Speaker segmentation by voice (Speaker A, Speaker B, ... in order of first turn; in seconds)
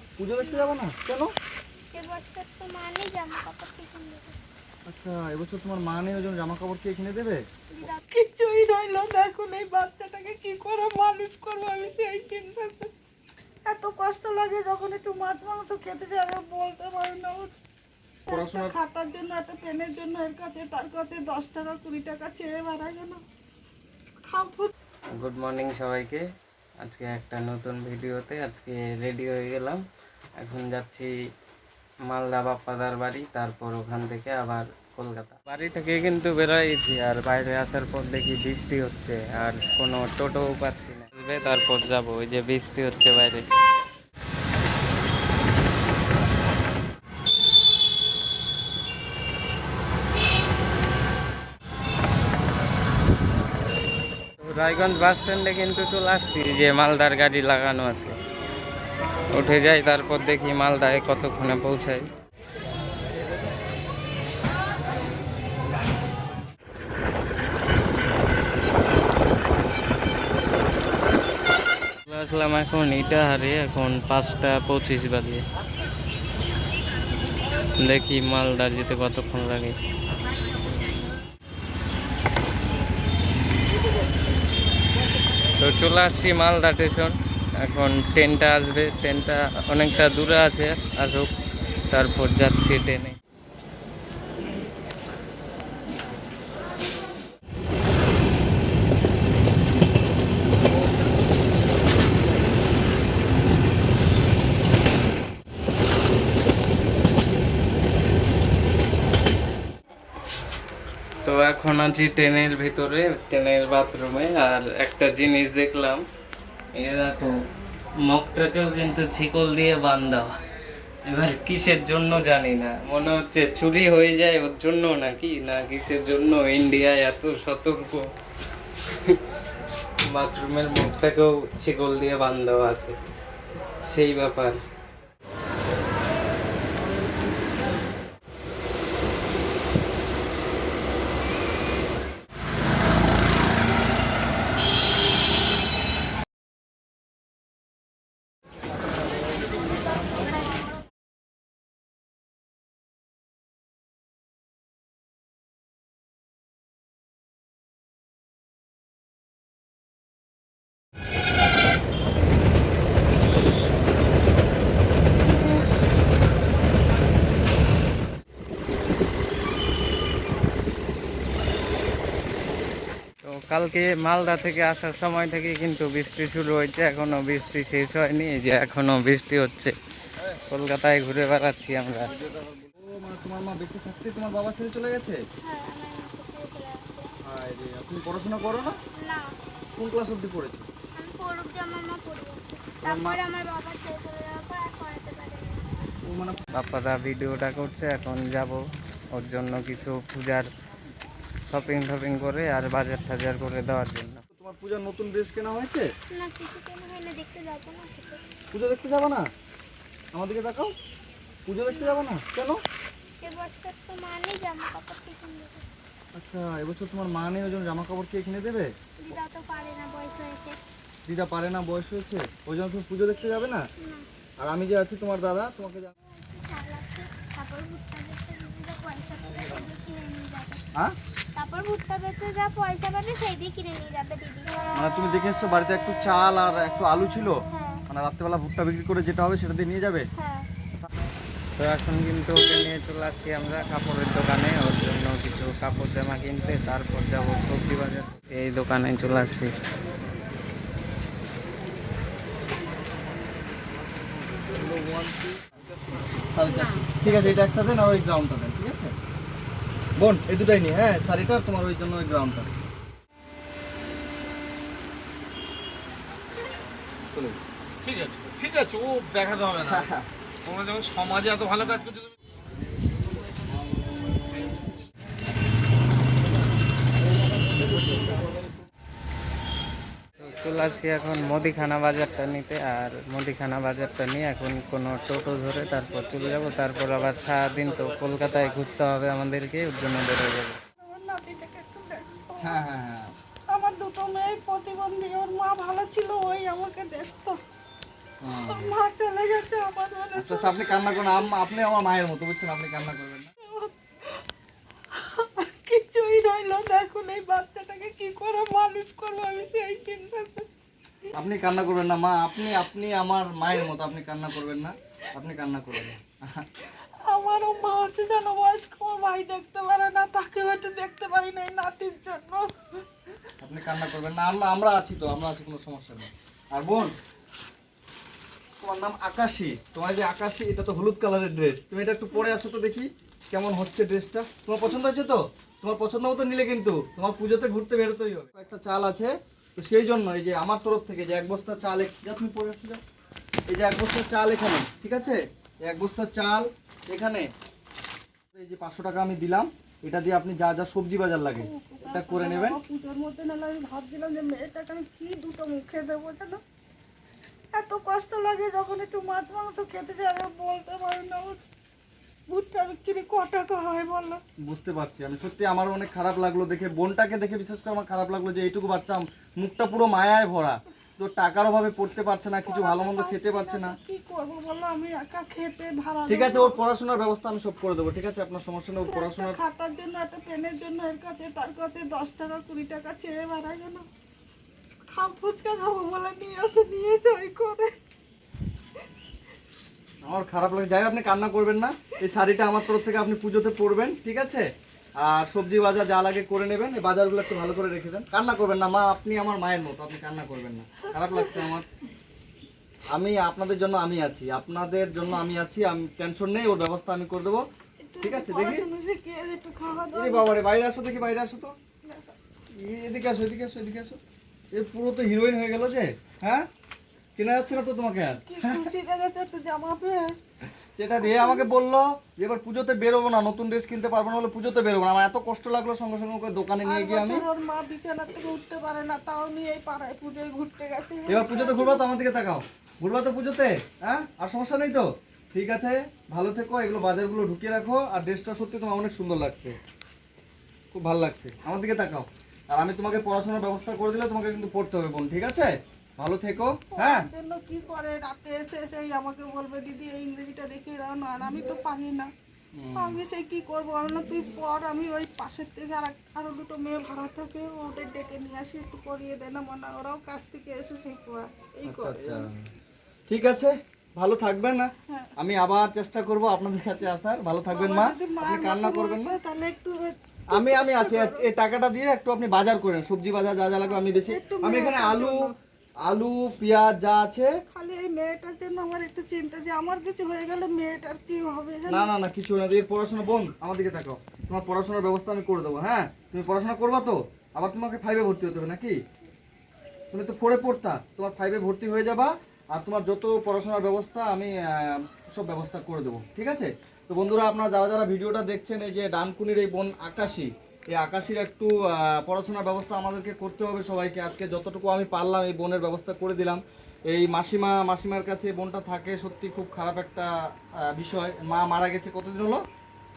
Speaker A: 0.2-1.3, 4.9-7.4, 18.3-18.8, 182.1-185.2, 187.2-188.7, 189.7-190.7, 192.8-193.2, 196.0-196.4, 204.3-205.8, 208.5-209.3, 210.1-210.7, 211.4-212.6, 216.1-218.7, 221.1-223.6, 224.4-225.9, 234.7-240.1, 254.4-255.4, 256.2-258.9, 260.0-262.5, 269.6-270.1, 292.4-293.1, 298.2-298.8, 300.1-303.3, 311.1-316.5, 323.4-327.0, 328.6-342.8, 343.5-347.3, 348.3-352.6, 364.4-373.8, 376.1-379.4, 390.0-394.5, 395.0-401.6, 402.9-407.4, 408.0-408.7, 409.9-411.5, 412.6-414.0, 414.5-416.4, 417.1-418.7, 420.8-427.2, 431.1-439.6, 440.7-447.1, 452.5-453.0, 461.6-462.4, 463.1-469.2, 470.3-475.3, 475.9-477.3, 481.7-488.8, 489.9-510.1, 510.6-512.4
Speaker B: 0.4-0.8, 1.9-4.4, 7.7-8.1, 185.4-187.1, 189.0-189.3, 190.9-195.9, 206.1-208.2, 211.7-212.1, 213.2-215.7, 219.0-220.6, 223.8-224.0, 225.9-230.6, 231.3-234.5, 237.5-237.8, 240.2-240.4, 255.9-257.1
Speaker C: 8.1-13.1, 13.6-17.6, 18.3-23.2, 24.2-24.7, 290.8-292.6, 293.5-297.4, 298.4-301.3, 303.4-304.2, 304.9-311.1, 316.8-323.0, 351.3-356.4, 357.5-361.4, 362.3-364.2, 372.4-376.6, 378.8-383.9, 384.9-387.7, 400.9-401.5, 407.8-410.3, 411.8-412.1, 418.2-420.2, 421.0-421.5, 426.6-431.9, 446.7-452.1, 452.7-462.3, 467.5-471.3, 473.6-475.3, 477.5-481.9
Speaker D: 25.2-26.2, 26.8-29.8, 30.4-31.1, 32.0-43.4, 54.4-58.1, 59.3-62.1, 72.1-75.4, 77.8-79.7, 85.6-91.3, 91.9-93.2, 111.2-116.0, 116.7-117.3, 118.0-120.3, 121.0-128.0, 130.1-132.9, 133.8-134.6, 173.2-179.7, 180.5-182.2, 196.5-198.6, 199.2-200.5, 201.5-204.2, 241.6-249.5, 280.2-290.6
Speaker E: 267.8-269.6, 270.5-272.1